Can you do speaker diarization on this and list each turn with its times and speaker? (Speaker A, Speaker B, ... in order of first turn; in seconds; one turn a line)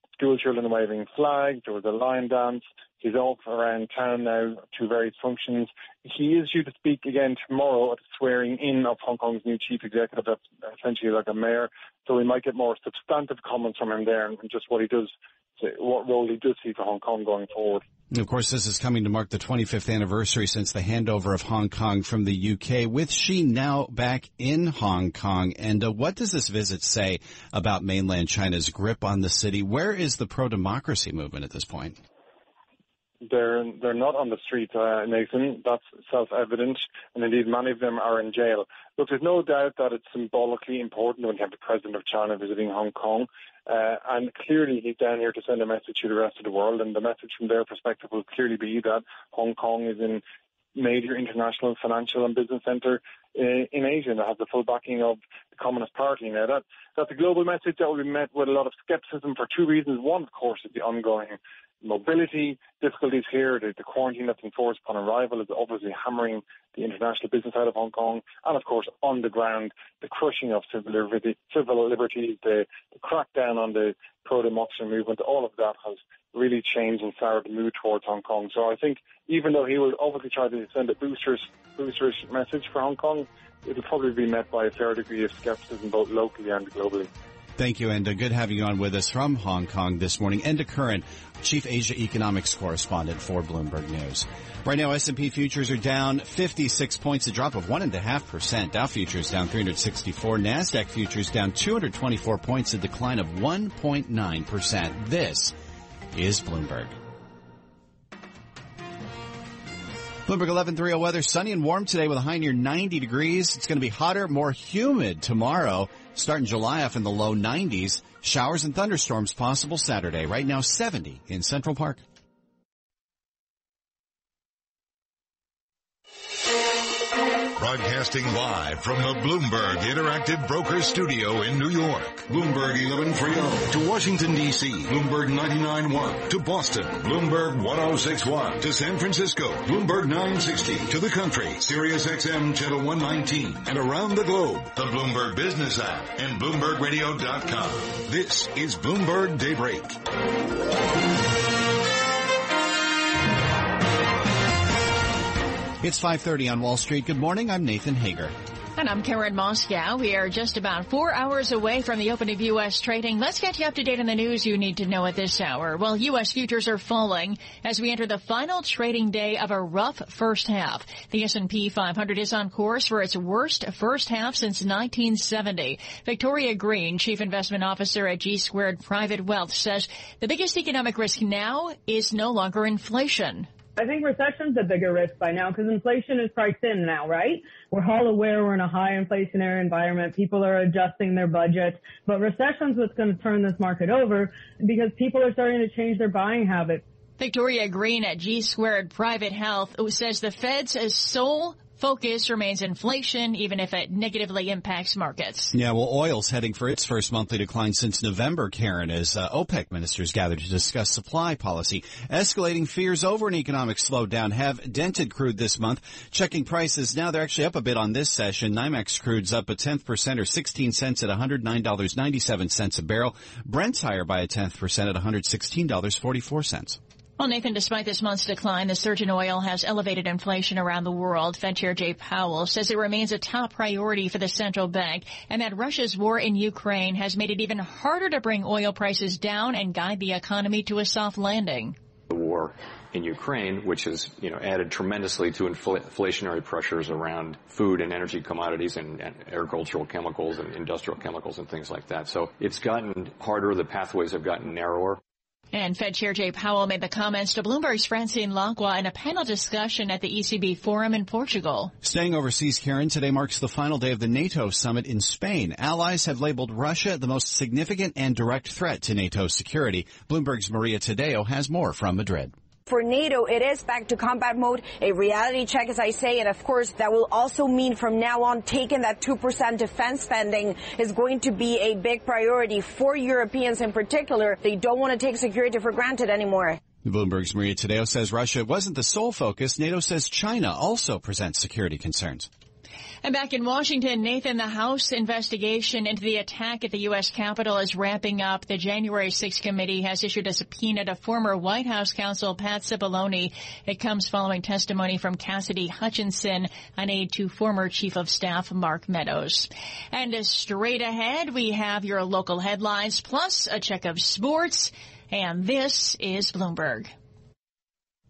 Speaker A: 0.2-17.8
Speaker B: 18.1-32.0
Speaker A: 33.3-50.2
Speaker A: 50.8-87.1
Speaker B: 87.6-105.5
Speaker B: 106.1-107.0
Speaker B: 110.3-122.0
Speaker C: 127.6-150.0
Speaker B: 155.8-158.3
Speaker D: 158.8-183.5
Speaker E: 183.8-196.8
Speaker D: 197.2-205.5
Speaker B: 205.5-226.8
Speaker D: 227.2-241.8
Speaker F: 242.1-255.0
Speaker D: 255.5-261.7
Speaker B: 261.8-272.3
Speaker G: 272.7-286.6
Speaker B: 286.9-292.3
Speaker D: 293.0-316.9